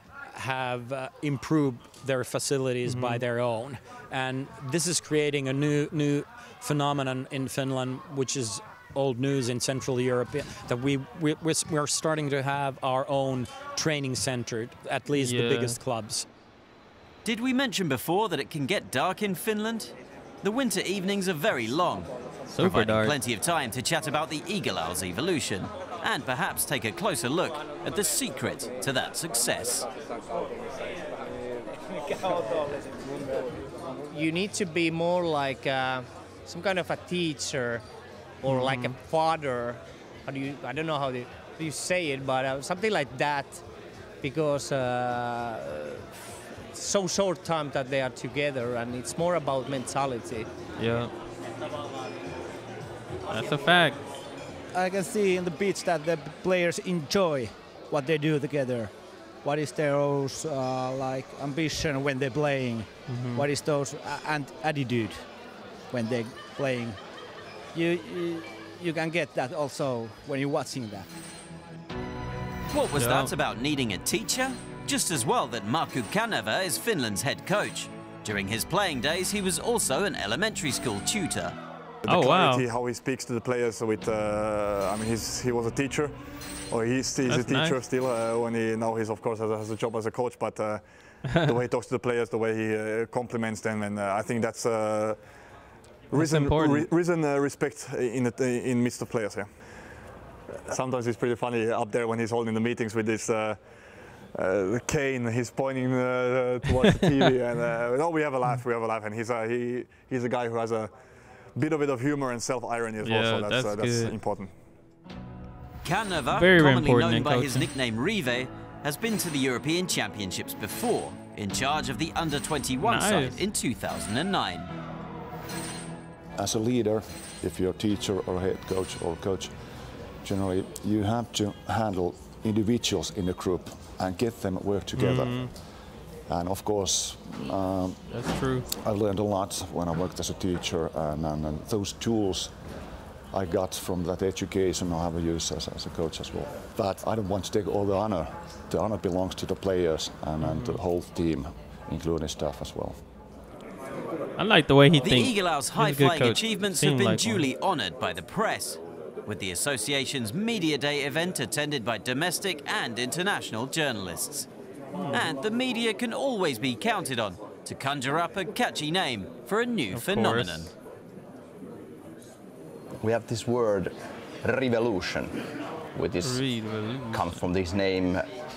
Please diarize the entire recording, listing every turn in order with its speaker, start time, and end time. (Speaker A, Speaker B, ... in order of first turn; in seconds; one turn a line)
Speaker A: 0.3-16.3
Speaker B: 2.8-3.2
Speaker B: 15.1-15.8
Speaker C: 17.2-29.9
Speaker B: 22.5-23.2
Speaker D: 34.0-37.8
Speaker D: 38.4-43.6
Speaker B: 38.5-39.0
Speaker D: 44.2-50.5
Speaker B: 50.8-51.1
Speaker B: 53.3-54.0
Speaker E: 54.7-65.3
Speaker B: 63.1-63.4
Speaker E: 65.9-67.0
Speaker E: 67.7-71.1
Speaker C: 72.7-81.6
Speaker B: 73.0-73.3
Speaker F: 82.0-86.2
Speaker B: 82.1-82.7
Speaker F: 86.7-95.3
Speaker B: 87.2-87.8
Speaker F: 96.1-99.5
Speaker B: 96.1-96.9
Speaker F: 100.7-103.7
Speaker F: 104.3-110.9
Speaker F: 111.5-114.5
Speaker B: 113.0-114.2
Speaker C: 115.8-124.7
Speaker B: 116.3-117.7
Speaker B: 122.8-123.4
Speaker G: 126.4-129.5
Speaker G: 130.2-135.7
Speaker B: 134.9-135.5
Speaker G: 136.3-142.7
Speaker B: 138.1-138.7
Speaker G: 143.3-153.0
Speaker B: 150.4-150.8
Speaker B: 154.4-157.5
Speaker C: 155.0-164.5
Speaker B: 164.9-165.3
Speaker C: 165.1-170.7
Speaker B: 169.9-170.7
Speaker H: 173.0-175.4
Speaker H: 175.9-176.5
Speaker B: 176.2-177.4
Speaker H: 177.1-178.2